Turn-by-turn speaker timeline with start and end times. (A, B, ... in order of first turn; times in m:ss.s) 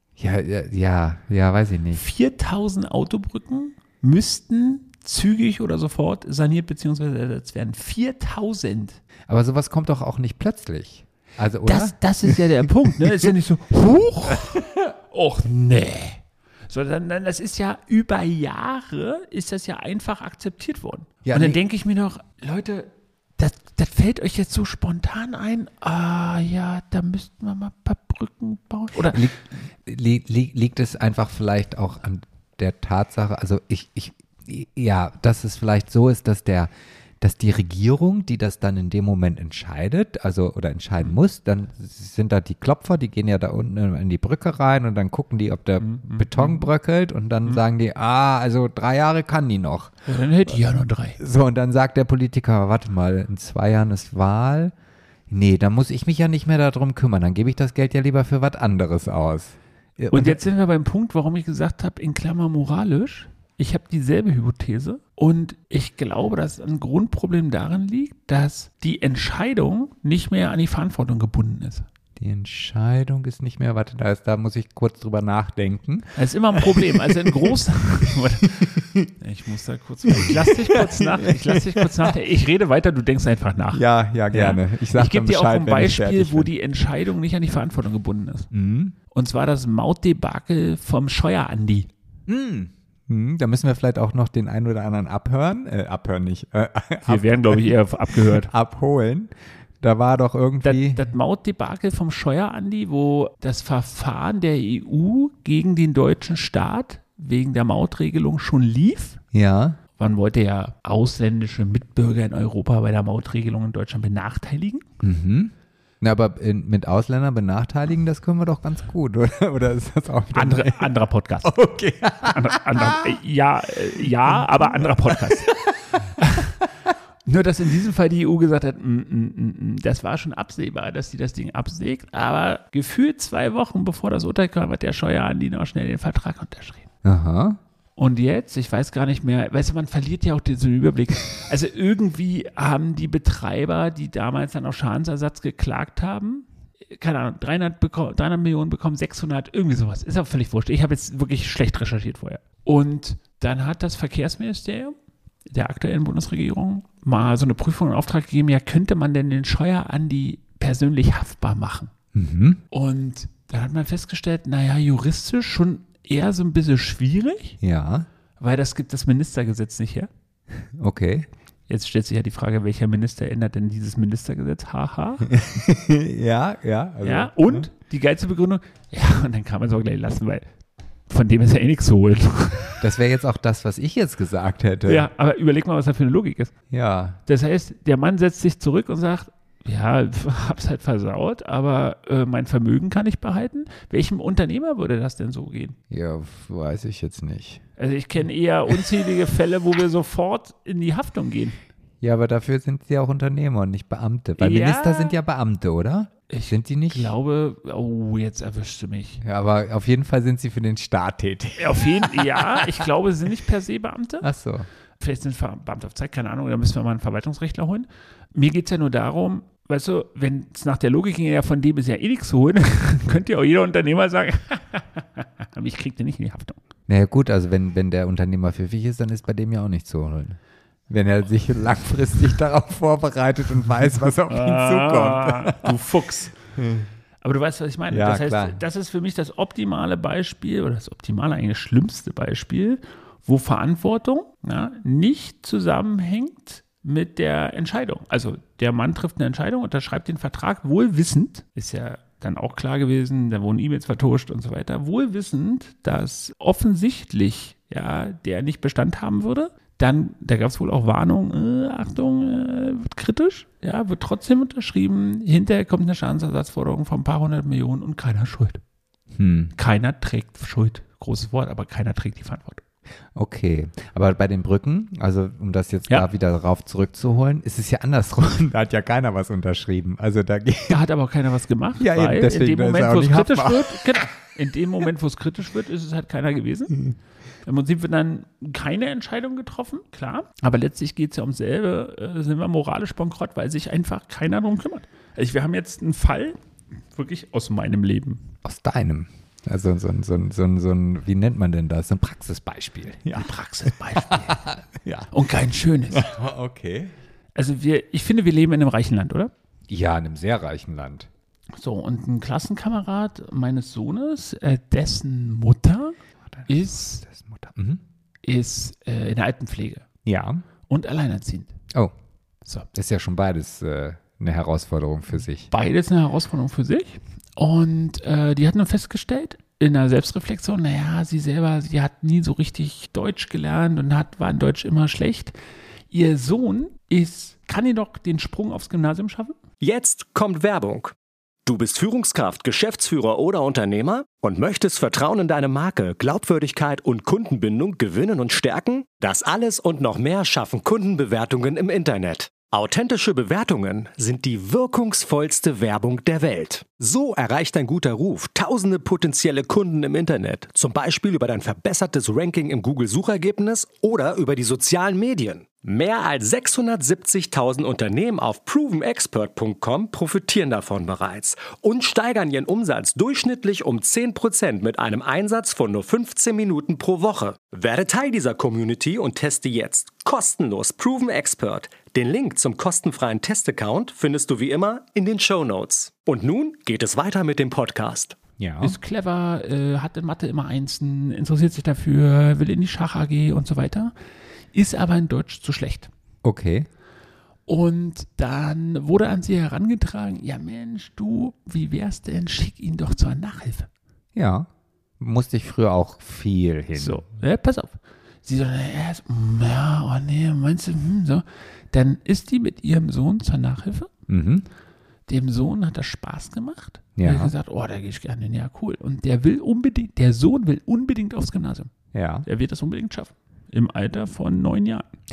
0:00.2-0:02.0 A
0:01.9-0:09.0 B
0:09.3-0:13.3 A
0:11.6-0:29.3 B
0:14.3-0:14.8 A
0:21.2-0:21.6 A
0:29.1-0:50.0 A
0:45.8-0:46.6 B
0:50.0-0:51.2 B
0:51.2-0:54.7 A
0:55.3-1:00.4 A
1:00.1-1:11.8 B
1:12.2-1:19.0 A
1:16.1-1:28.5 B
1:20.0-1:22.1 A
1:23.7-1:26.5 A
1:28.5-1:28.9 A
1:29.1-1:31.9 B
1:32.3-1:41.0 A
1:37.0-1:38.5 B
1:40.6-1:49.2 B
1:49.3-1:49.8 A
1:50.0-1:54.8 B
1:55.0-2:03.2 A
2:00.3-2:01.6 B
2:02.2-2:05.5 B
2:04.0-2:05.9 A
2:06.2-2:06.6 B
2:07.2-2:16.9 B
2:17.0-2:17.6 A
2:18.0-2:34.9 B
2:35.5-2:41.9 B
2:42.1-2:42.6 A
2:42.7-2:47.6 B
2:47.6-2:48.1 A
2:48.4-2:50.1 B
2:50.6-2:51.3 A
2:51.7-2:55.3 B
2:55.3-2:57.7 A
2:57.0-3:00.4 B
3:01.1-3:02.8 B
3:02.8-3:05.1 A
3:04.8-3:06.5 B
3:06.7-3:07.2 A
3:07.2-3:15.8 B
3:15.9-3:17.6 A
3:17.8-3:21.6 B
3:22.0-3:27.1 A
3:24.4-3:25.2 B
3:26.3-3:29.2 B
3:29.2-3:32.7 A
3:31.6-3:34.3 B
3:34.2-3:34.7 A
3:35.0-3:46.6 B
3:46.9-3:50.4 A
3:50.9-3:55.7 A
3:54.3-3:56.3 B
3:56.6-3:56.9 A
3:57.2-4:28.6 B
3:57.9-3:58.6 A
4:29.1-4:29.5 A
4:29.6-4:32.6 B
4:33.1-4:40.8 A
4:40.7-4:46.8 B
4:41.8-4:44.1 A
4:47.4-4:56.4 B
4:56.9-4:58.2 B
4:58.4-5:05.1 A
5:03.1-5:04.4 B
5:05.1-5:06.1 B
5:05.9-5:06.9 A
5:07.3-5:09.3 B
5:09.7-5:11.1 A
5:11.5-5:17.0 B
5:16.3-5:17.8 A
5:18.2-5:19.8 B
5:20.0-5:20.4 A
5:20.7-5:21.5 B
5:22.7-5:25.5 A
5:25.5-5:35.3 B
5:35.9-5:39.4 B
5:39.6-5:40.9 C
5:41.4-6:28.2 C
6:28.4-6:28.8 A
6:28.6-6:33.9 B
6:34.5-6:35.9 B
6:36.2-6:36.7 A
6:37.5-6:43.7 B
6:44.1-6:44.5 A
6:45.0-6:47.0 A
6:46.7-6:53.9 B
6:54.1-6:54.4 A
6:55.1-7:01.7 B
6:57.0-6:57.3 A
7:01.9-7:02.3 A
7:02.2-7:04.9 B